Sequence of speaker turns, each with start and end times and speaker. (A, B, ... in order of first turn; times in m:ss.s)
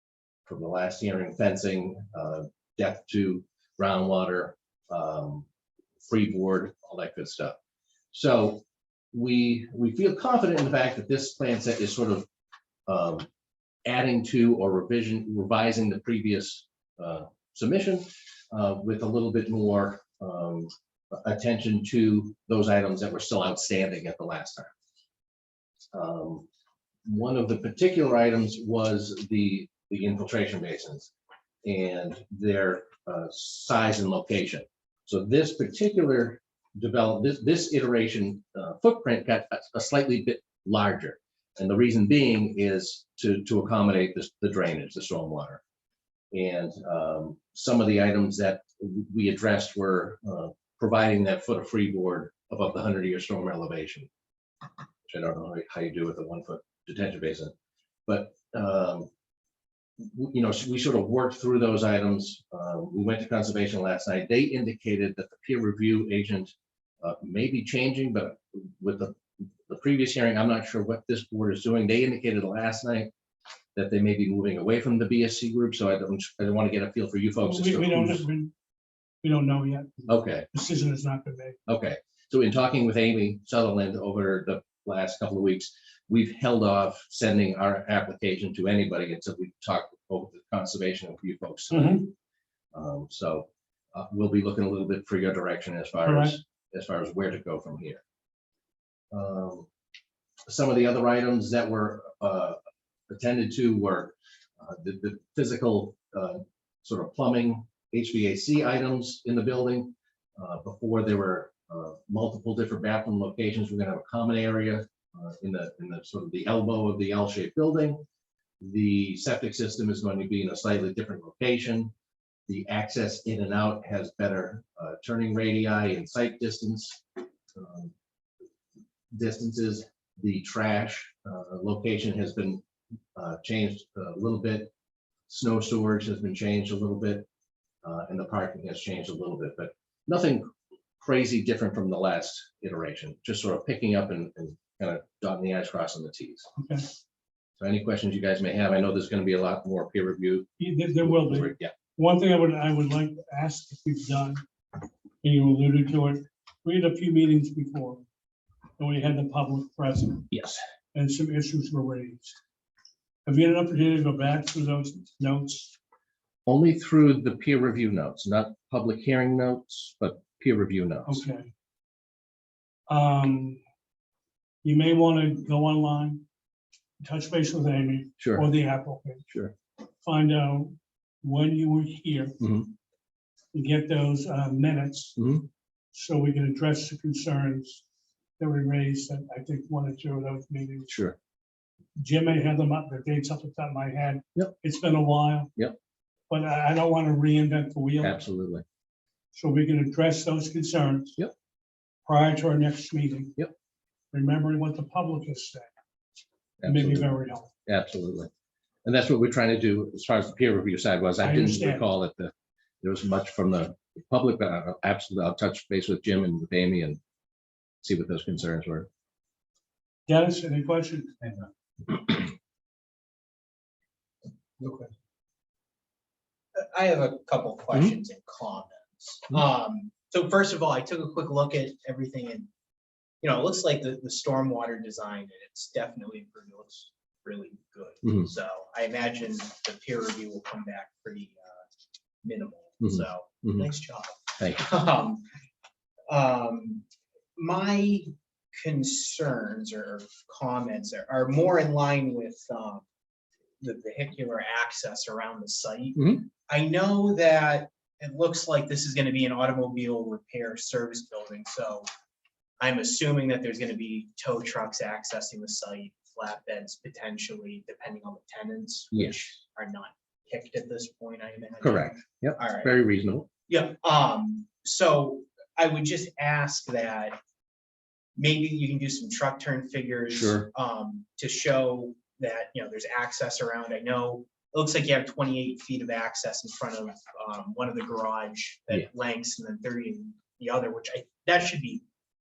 0:00.5-0:05.5 A
0:06.0-0:07.6 A
0:08.1-0:12.3 A
0:12.9-0:13.3 A
0:13.9-0:24.7 A
0:25.9-0:26.5 A
0:27.1-0:31.1 A
0:31.6-0:45.6 A
0:46.3-0:54.1 A
0:55.1-0:57.5 A
0:58.1-0:59.1 A
1:00.0-1:13.1 A
1:13.8-1:18.2 A
1:17.4-1:18.5 B
1:19.2-1:21.6 B
1:20.1-1:20.5 A
1:21.7-1:32.1 A
1:31.7-1:32.1 B
1:32.7-1:38.0 A
1:36.1-1:36.4 B
1:39.1-1:39.7 A
1:40.5-1:58.0 A
1:58.6-2:01.9 A
2:02.5-2:07.0 A
2:07.6-2:07.9 A
2:09.1-2:12.6 A
2:13.2-2:14.7 A
2:15.3-2:17.3 A
2:17.8-2:20.5 A
2:21.0-2:26.5 A
2:26.6-2:26.8 B
2:27.6-2:30.5 A
2:30.6-2:34.4 B
2:31.0-2:31.8 A
2:35.2-2:38.0 B
2:38.8-2:40.3 B
2:40.3-2:40.6 A
2:40.9-2:42.4 B
2:43.3-2:45.7 B
2:46.5-2:51.2 A
2:51.1-2:51.5 B
2:52.9-2:53.6 B
2:54.6-2:56.2 B
2:57.0-2:59.2 B
2:58.2-2:58.5 A
3:00.0-3:02.4 B
3:02.4-3:02.7 A
3:03.5-3:05.2 B
3:05.2-3:05.5 A
3:05.9-3:07.8 B
3:08.4-3:10.9 B
3:10.9-3:11.2 A
3:12.0-3:15.5 B
3:16.3-3:18.2 B
3:18.0-3:18.6 A
3:19.3-3:21.2 B
3:22.0-3:23.4 B
3:24.1-3:25.7 B
3:26.6-3:27.1 A
3:26.6-3:27.5 B
3:27.7-3:28.3 A
3:28.8-3:37.0 A
3:31.2-3:31.8 B
3:37.8-3:38.9 A
3:40.1-3:42.0 B
3:46.6-3:52.5 C
3:53.2-4:01.6 C
4:02.2-4:05.3 C
4:02.8-4:03.7 A
4:04.4-4:04.7 A
4:06.1-4:06.9 C
4:07.4-4:12.8 C
4:13.6-4:21.9 C
4:16.0-4:16.2 A
4:22.6-4:32.8 C
4:28.9-4:29.2 A
4:31.6-4:33.3 A
4:33.5-4:37.2 C
4:38.2-4:51.8 C
4:40.1-4:40.5 A